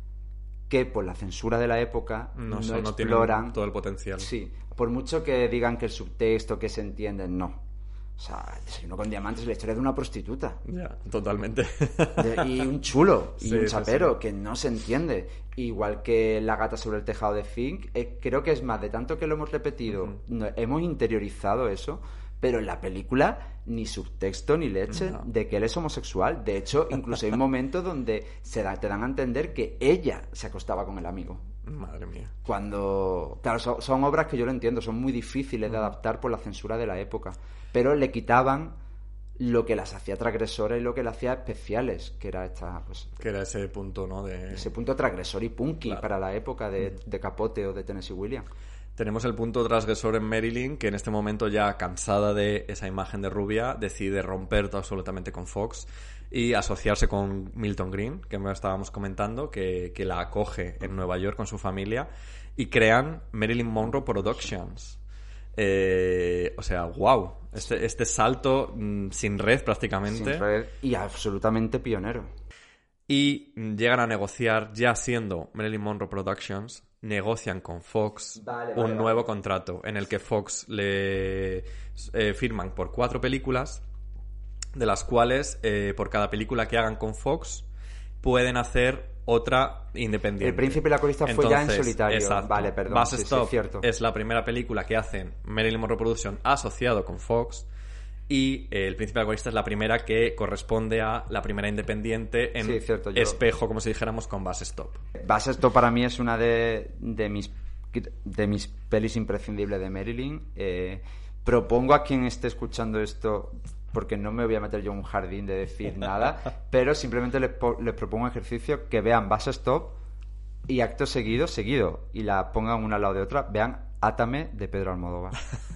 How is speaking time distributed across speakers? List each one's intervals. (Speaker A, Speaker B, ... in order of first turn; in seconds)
Speaker A: 0.7-3.6, 4.2-7.6, 8.2-10.6, 12.2-31.5, 32.5-38.8, 39.4-43.2, 44.5-48.5, 63.8-64.5, 70.1-72.3, 78.4-79.3, 90.4-93.9, 102.6-103.4, 105.2-120.0, 120.7-125.4
Speaker B: 2.4-4.3, 10.7-12.6, 13.4-14.1, 24.9-25.2, 31.6-32.3, 43.2-44.7, 49.0-65.0, 65.6-70.5, 73.1-83.8, 84.8-87.7, 88.2-97.7, 98.3-105.0